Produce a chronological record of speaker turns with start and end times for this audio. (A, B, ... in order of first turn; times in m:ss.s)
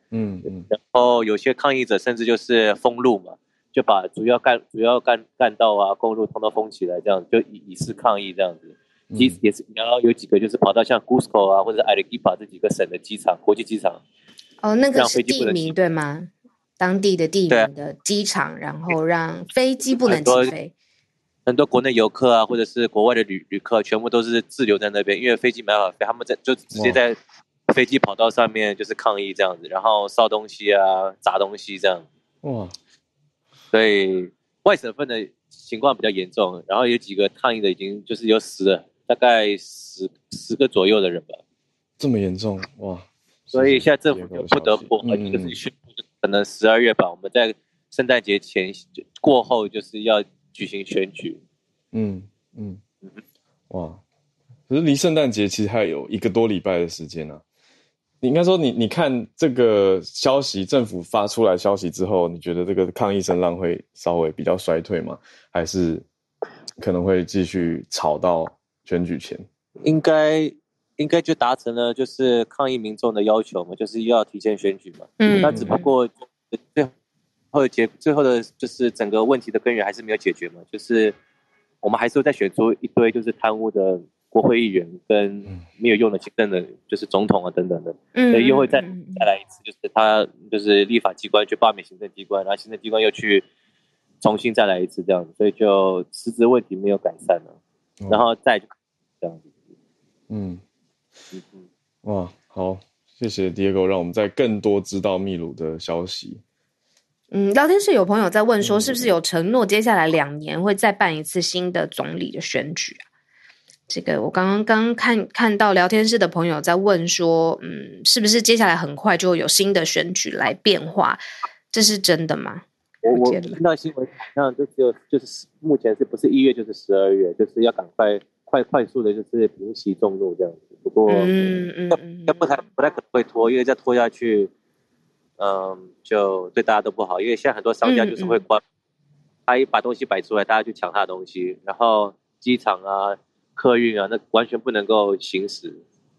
0:00.1-0:00.6 A
0:00.7-0:14.0 B
0:09.1-0:09.4 A
0:14.6-0:20.7 C
0:15.0-0:15.7 B
0:20.1-0:20.5 B
0:21.5-0:27.2 B
0:26.7-0:27.0 A
0:27.7-0:32.1 B
0:32.4-0:32.7 A
0:33.7-0:41.4 B
0:42.0-0:45.6 A
0:43.5-0:51.4 B
0:51.9-0:52.8 A
0:53.7-0:54.0 A
0:54.7-0:57.4 A
0:58.2-1:06.0 A
1:06.8-1:09.4 A
1:09.8-1:16.9 B
1:15.2-1:15.9 C
1:15.4-1:15.8 A
1:17.5-1:21.2 B
1:21.8-1:33.4 B
1:28.2-1:29.3 C
1:34.2-1:37.5 B
1:38.1-1:38.7 B
1:39.2-1:39.5 B
1:40.3-1:40.6 A
1:41.3-1:41.6 B
1:42.0-1:46.4 A
1:47.3-1:53.0 C
1:48.6-1:49.0 A
1:53.9-2:01.2 C
2:01.7-2:03.6 C
2:03.0-2:14.5 B
2:11.1-2:12.6 C
2:15.4-2:18.6 B
2:17.8-2:18.4 C
2:19.5-2:25.8 B